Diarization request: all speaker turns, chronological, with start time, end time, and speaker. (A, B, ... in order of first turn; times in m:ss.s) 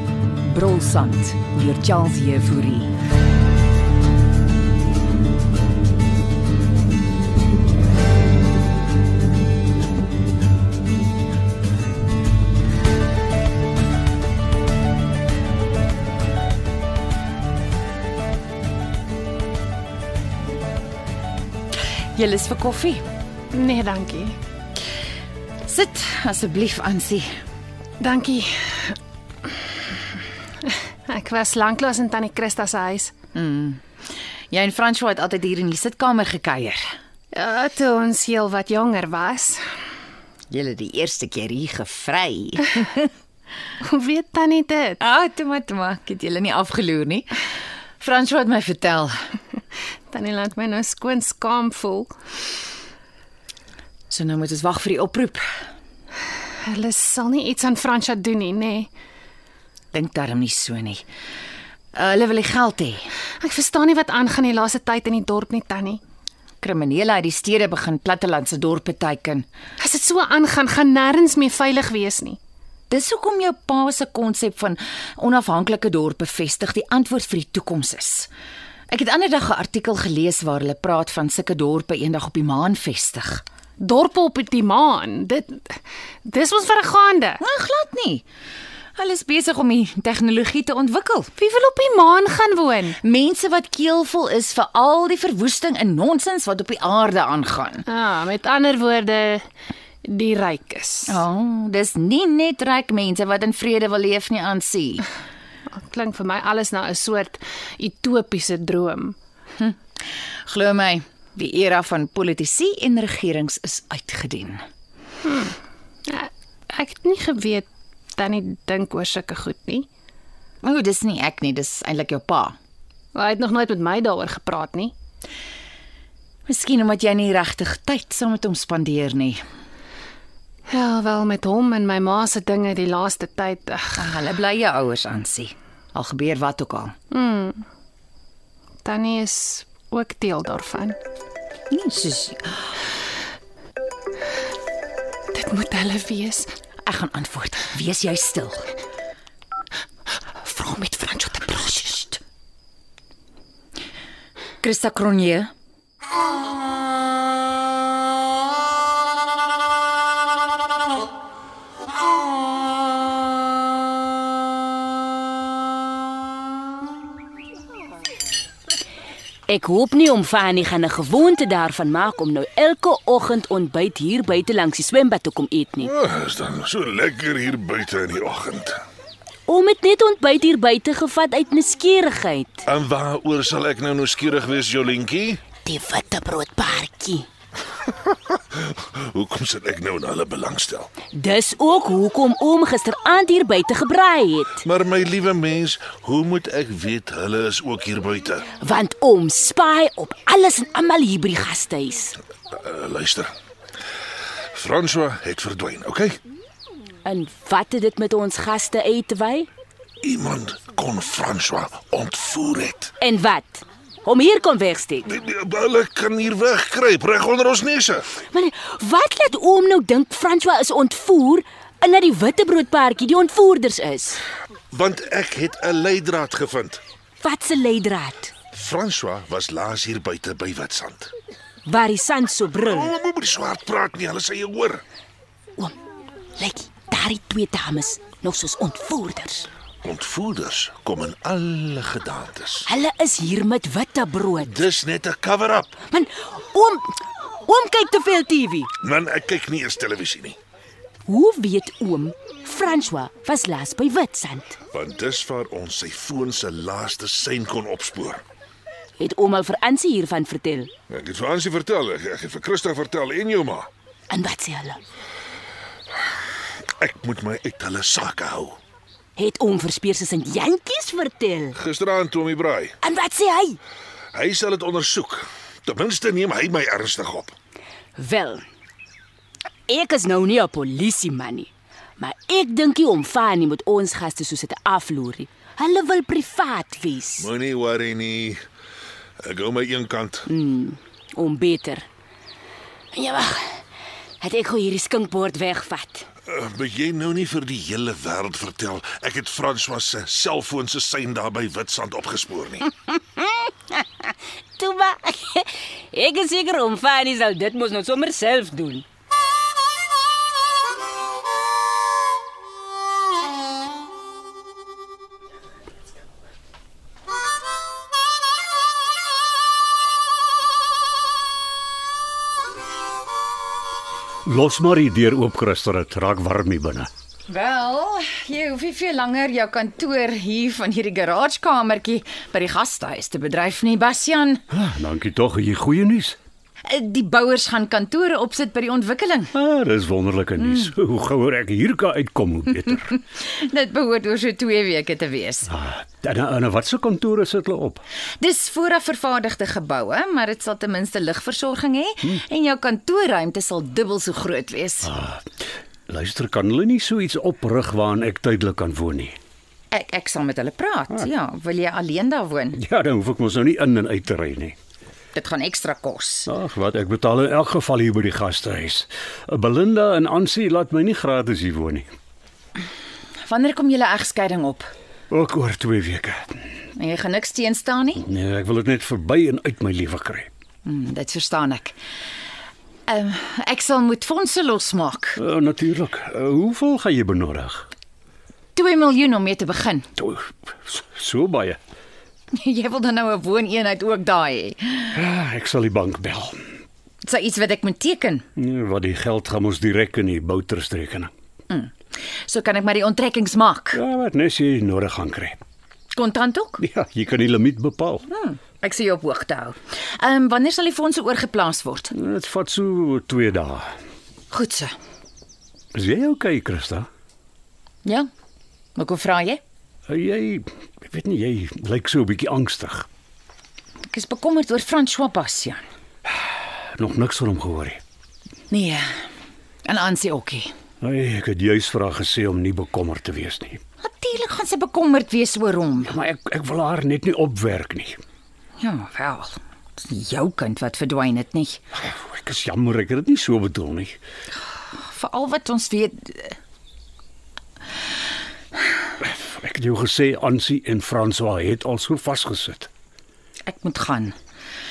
0:00.4-0:02.9 A
0:22.2-0:23.0 B
0:23.5-0:24.4 C
0:25.7-0:27.3 B
0:28.0-0:29.0 C
0:30.6-0:33.1 C
0:33.3-0:33.8 B
0:34.5-0:36.9 B
0:37.3-0:39.6 C
0:40.5-0:43.1 B
0:43.8-0:45.0 C
0:45.0-0:47.3 B
0:48.0-0:49.2 B
0:50.1-0:52.1 C
0:54.1-0:55.5 B
0:56.7-0:58.9 C
0:59.9-1:01.0 B
1:01.9-1:03.1 B
1:03.4-1:06.0 C
1:06.6-1:09.5 B
1:09.8-1:12.4 C
1:12.9-1:18.3 B
1:18.9-1:23.4 B
1:23.8-1:27.4 C
1:27.4-1:28.2 B
1:29.0-1:31.3 B
1:31.4-1:33.0 C
1:33.0-1:37.8 B
1:37.9-1:39.5 C
1:40.1-1:41.3 C
1:41.1-1:45.1 B
1:45.7-1:49.2 C
1:50.5-1:54.6 B
1:55.2-1:55.6 C
1:56.1-1:59.9 C
2:00.6-2:02.6 B
2:03.2-2:04.9 C
2:06.5-2:09.4 B
2:10.7-2:14.3 C
2:14.0-2:17.0 B
2:17.1-2:17.6 C
2:18.8-2:21.0 C
2:21.7-2:22.7 B
2:25.3-2:26.5 C
2:26.9-2:28.7 B
2:30.4-2:32.2 C
2:34.6-2:35.5 B
2:49.5-2:55.9 D
2:55.8-2:58.8 E
2:59.5-3:02.6 D
3:02.7-3:05.4 E
3:05.6-3:07.3 D
3:08.6-3:10.9 E
3:11.1-3:14.6 D
3:14.6-3:18.4 E
3:18.6-3:22.2 D
3:22.6-3:23.3 E
3:24.6-3:26.2 E
3:27.0-3:29.5 D
3:30.0-3:32.9 E
3:33.0-3:35.1 D
3:35.1-3:38.1 E
3:38.3-3:44.2 D
3:44.7-3:46.8 E
3:47.2-3:48.3 D
3:48.5-3:51.1 E
3:51.6-3:52.9 D
3:52.7-3:54.8 E
3:56.4-3:59.5 D
3:59.8-4:02.6 E
4:02.7-4:04.6 D
4:04.4-4:05.8 E
4:05.9-4:08.7 D
4:08.8-4:10.4 E
4:11.1-4:14.6 D
4:14.7-4:18.2 E
4:19.0-4:20.7 D
4:20.9-4:23.7 E
4:24.1-4:24.8 D
4:26.8-4:28.6 E
4:29.2-4:31.6 D
4:31.6-4:32.7 E
4:32.8-4:33.6 D
4:34.1-4:37.4 E
4:38.0-4:38.5 D
4:39.7-4:47.3 D
4:47.2-4:48.4 E
4:49.2-4:50.2 E
4:50.3-4:51.9 D
4:52.9-4:53.6 D
4:54.2-4:56.1 D
4:56.3-5:02.6 E
5:04.6-5:08.8 D
5:24.3-5:26.9 F
5:27.3-5:34.4 B
5:34.5-5:36.2 F
5:36.6-5:39.3 B
5:39.3-5:43.0 F
5:40.4-5:40.7 B
5:43.0-5:45.5 B
5:45.5-5:47.8 F
5:48.2-5:54.9 B
5:54.8-5:55.2 F
5:55.9-5:59.2 F
5:59.7-6:02.6 B
6:02.5-6:04.6 F
6:05.1-6:06.3 B
6:06.3-6:11.9 F
6:13.3-6:14.7 B
6:15.1-6:16.4 F
6:16.7-6:18.0 B
6:18.0-6:20.3 F
6:20.6-6:21.8 B
6:22.9-6:25.2 B
6:25.2-6:27.7 F
6:28.6-6:29.9 B
6:30.0-6:31.6 F
6:32.4-6:34.9 B
6:34.9-6:36.4 F
6:37.0-6:38.3 B
6:38.4-6:41.1 F
6:41.5-6:43.8 B
6:43.7-6:45.4 F
6:45.9-6:46.6 B
6:46.6-6:48.1 F
6:48.1-6:51.9 B
6:51.9-6:53.7 F
6:54.3-6:54.8 B
6:55.7-6:56.9 F
6:58.8-6:59.4 B
6:59.9-7:02.9 F
7:03.9-7:05.6 B
7:06.8-7:07.8 F
7:08.5-7:09.0 B
7:09.6-7:10.5 B
7:10.8-7:13.6 F
7:13.8-7:15.9 B
7:15.8-7:18.0 F
7:18.6-7:21.6 B
7:21.8-7:24.0 F
7:24.7-7:26.4 B
7:29.0-7:32.7 F
7:33.5-7:34.1 B